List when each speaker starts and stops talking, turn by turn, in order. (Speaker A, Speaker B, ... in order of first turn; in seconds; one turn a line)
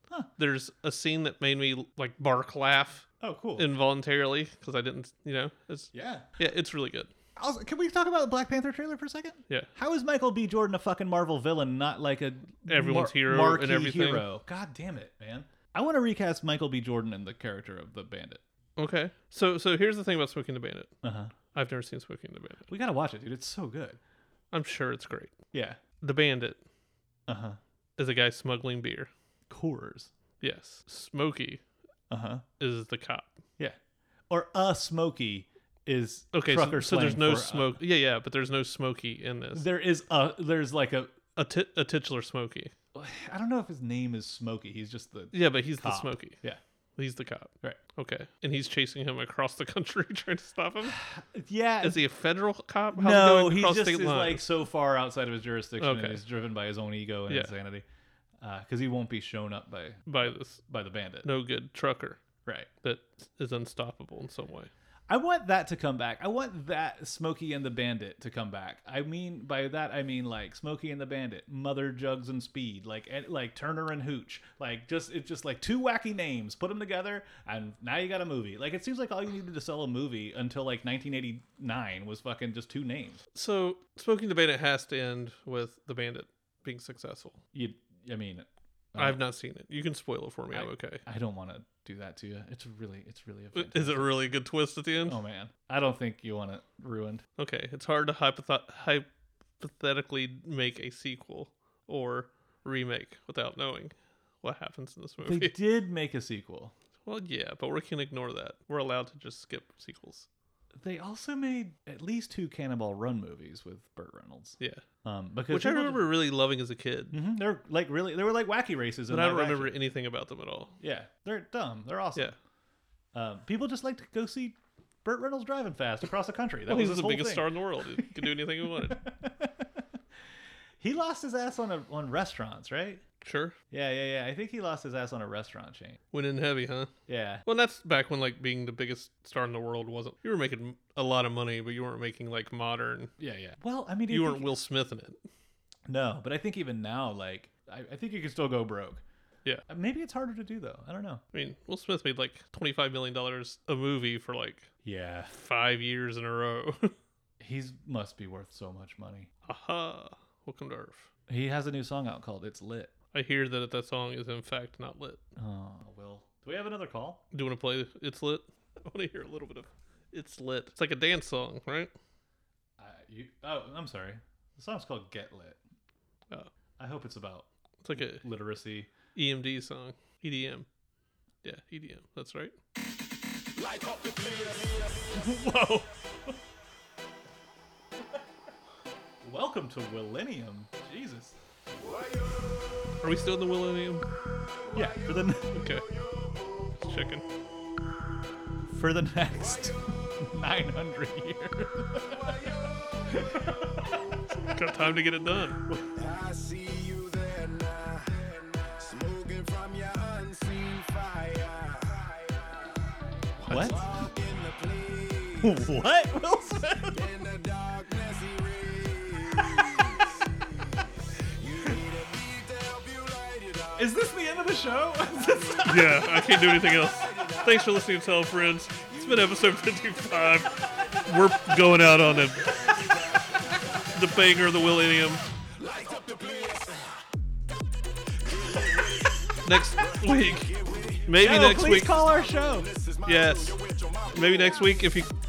Speaker A: 0.4-7.1
Speaker B: 3.2-3.7
Speaker B: 5.9-6.3
Speaker B: 7.4-18.4
Speaker A: 12.7-14.3
Speaker A: 18.8-20.9
Speaker B: 21.0-21.3
Speaker A: 21.5-22.7
Speaker B: 22.7-24.0
Speaker A: 24.5-25.4
Speaker B: 25.5-25.8
Speaker A: 26.0-26.6
Speaker B: 27.3-27.6
Speaker A: 28.0-29.1
Speaker B: 29.5-30.1
Speaker A: 30.4-31.6
Speaker B: 32.1-32.4
Speaker A: 32.6-33.4
Speaker B: 34.3-37.8
Speaker A: 36.3-39.6
Speaker B: 39.5-41.1
Speaker A: 41.4-42.7
Speaker B: 42.9-46.6
Speaker A: 45.3-46.4
Speaker A: 47.0-51.0
Speaker B: 51.0-52.0
Speaker A: 51.8-54.5
Speaker B: 53.0-57.9
Speaker A: 55.8-56.2
Speaker B: 58.4-61.3
Speaker A: 60.1-60.6
Speaker A: 61.2-62.2
Speaker A: 62.8-64.7
Speaker B: 65.1-83.2
Speaker A: 83.3-87.4
Speaker B: 87.5-89.2
Speaker A: 89.0-91.0
Speaker B: 90.5-94.1
Speaker A: 93.6-95.2
Speaker B: 95.0-97.2
Speaker A: 97.4-99.1
Speaker A: 99.6-105.5
Speaker B: 105.2-106.7
Speaker A: 107.1-110.3
Speaker B: 110.8-116.1
Speaker A: 115.5-117.2
Speaker B: 117.1-119.7
Speaker A: 119.1-120.8
Speaker B: 120.8-122.3
Speaker B: 123.1-127.5
Speaker A: 126.7-129.0
Speaker B: 128.9-129.7
Speaker B: 130.8-133.0
Speaker A: 133.2-133.6
Speaker B: 133.7-136.0
Speaker A: 136.1-136.9
Speaker B: 137.1-137.4
Speaker A: 137.4-143.1
Speaker B: 143.2-144.5
Speaker A: 144.1-145.2
Speaker B: 145.9-149.0
Speaker B: 149.7-151.2
Speaker A: 151.3-154.7
Speaker B: 154.8-155.3
Speaker A: 155.3-156.9
Speaker B: 157.4-159.3
Speaker A: 159.5-161.1
Speaker B: 161.3-162.9
Speaker A: 163.1-165.2
Speaker B: 165.4-167.2
Speaker A: 167.3-171.9
Speaker B: 172.8-175.6
Speaker B: 176.8-178.9
Speaker A: 177.8-178.2
Speaker A: 179.2-180.7
Speaker A: 181.4-182.6
Speaker C: 183.6-185.2
Speaker B: 185.1-186.4
Speaker B: 189.2-191.4
Speaker C: 191.8-193.0
Speaker A: 193.0-194.1
Speaker C: 194.7-196.9
Speaker B: 194.7-195.5
Speaker A: 195.5-195.9
Speaker A: 196.8-197.2
Speaker B: 198.7-202.4
Speaker C: 199.3-200.1
Speaker C: 202.1-204.0
Speaker B: 203.2-203.9
Speaker A: 204.5-205.6
Speaker C: 206.0-212.8
Speaker C: 213.4-215.7
Speaker B: 213.5-213.9
Speaker B: 215.4-217.1
Speaker C: 216.9-224.0
Speaker B: 223.8-226.0
Speaker C: 225.2-227.9
Speaker A: 225.7-233.1
Speaker C: 228.8-229.4
Speaker C: 230.7-231.4
Speaker C: 232.4-234.2
Speaker A: 233.9-235.2
Speaker C: 235.5-237.0
Speaker C: 238.2-245.1
Speaker A: 239.4-240.5
Speaker A: 241.1-242.0
Speaker B: 241.2-242.7
Speaker A: 243.1-243.6
Speaker A: 244.1-245.1